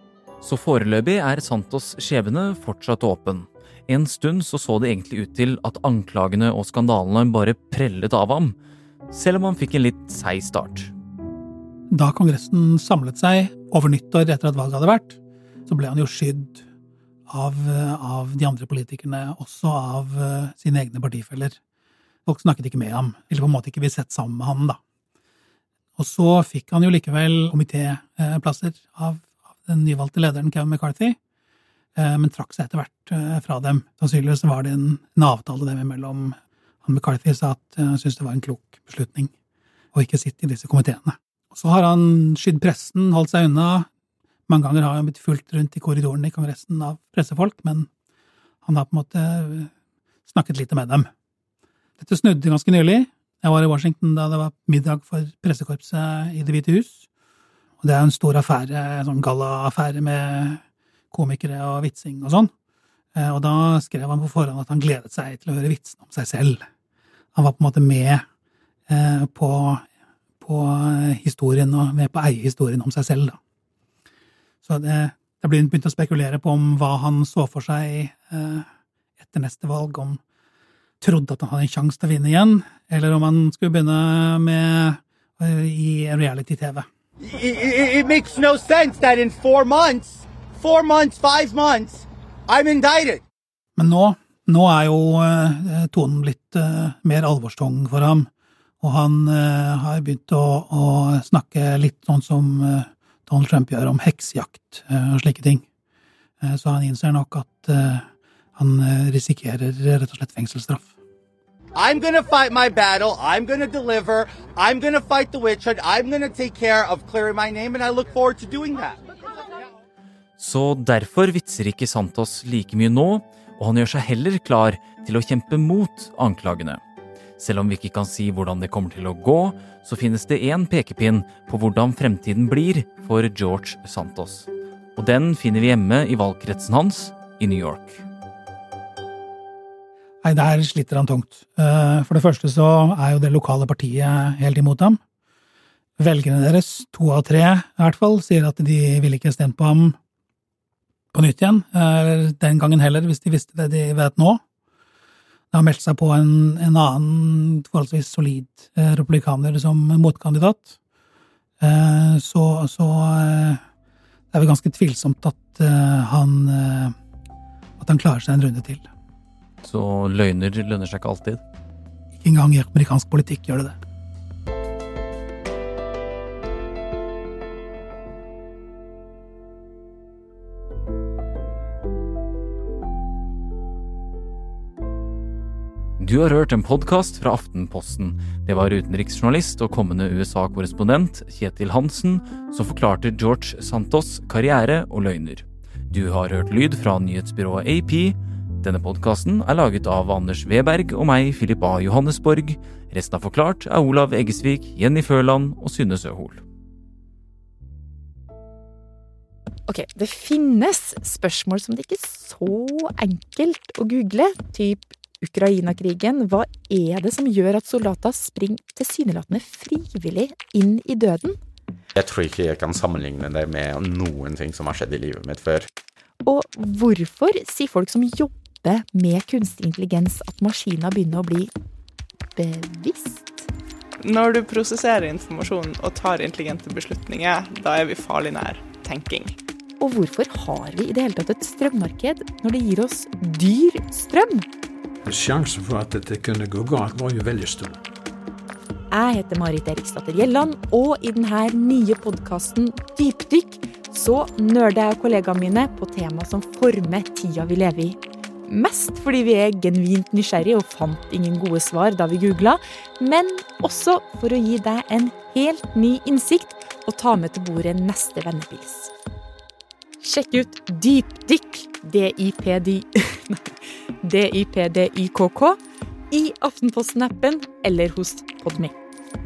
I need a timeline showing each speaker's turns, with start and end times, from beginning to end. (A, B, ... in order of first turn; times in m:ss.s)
0:00.4-0:08.6 A
0:09.1-0:10.9 A
0:11.9-0:16.6 B
0:17.3-0:21.6 B
0:22.2-0:24.8 B
0:26.0-0:31.2 B
0:32.0-0:39.3 B
0:39.9-0:43.9 B
0:44.5-0:47.9 B
0:48.6-0:49.7 B
0:50.2-0:51.1 B
0:52.0-0:57.1 B
0:57.8-1:02.5 B
1:03.1-1:06.6 B
1:07.3-1:08.2 B
1:08.9-1:09.8 B
1:10.4-1:13.4 B
1:14.6-1:18.6 B
1:19.2-1:20.2 B
1:21.0-1:26.8 B
1:27.2-1:33.2 C
1:33.8-1:38.3 B
1:38.8-1:45.6 B
1:46.4-1:50.9 B
1:51.8-1:59.0 C
2:00.4-2:06.8 A
2:07.4-2:18.0 A
2:20.2-2:25.0 B
2:26.0-2:30.0 B
2:31.1-2:34.4 B
2:35.5-2:40.8 B
2:41.6-2:43.6 B
2:44.3-2:46.9 B
2:47.8-2:48.9 B
2:49.6-2:51.4 A
2:52.2-2:53.8 B
3:06.0-3:26.4 A
3:29.7-3:41.4 D
3:41.9-3:45.7 E
3:46.2-3:51.5 D
3:52.3-3:53.5 D
3:54.0-3:59.4 F
3:59.8-4:04.5 D
4:05.0-4:07.8 G
4:08.9-4:28.9 D
4:30.0-4:35.6 D
4:36.1-4:38.8 D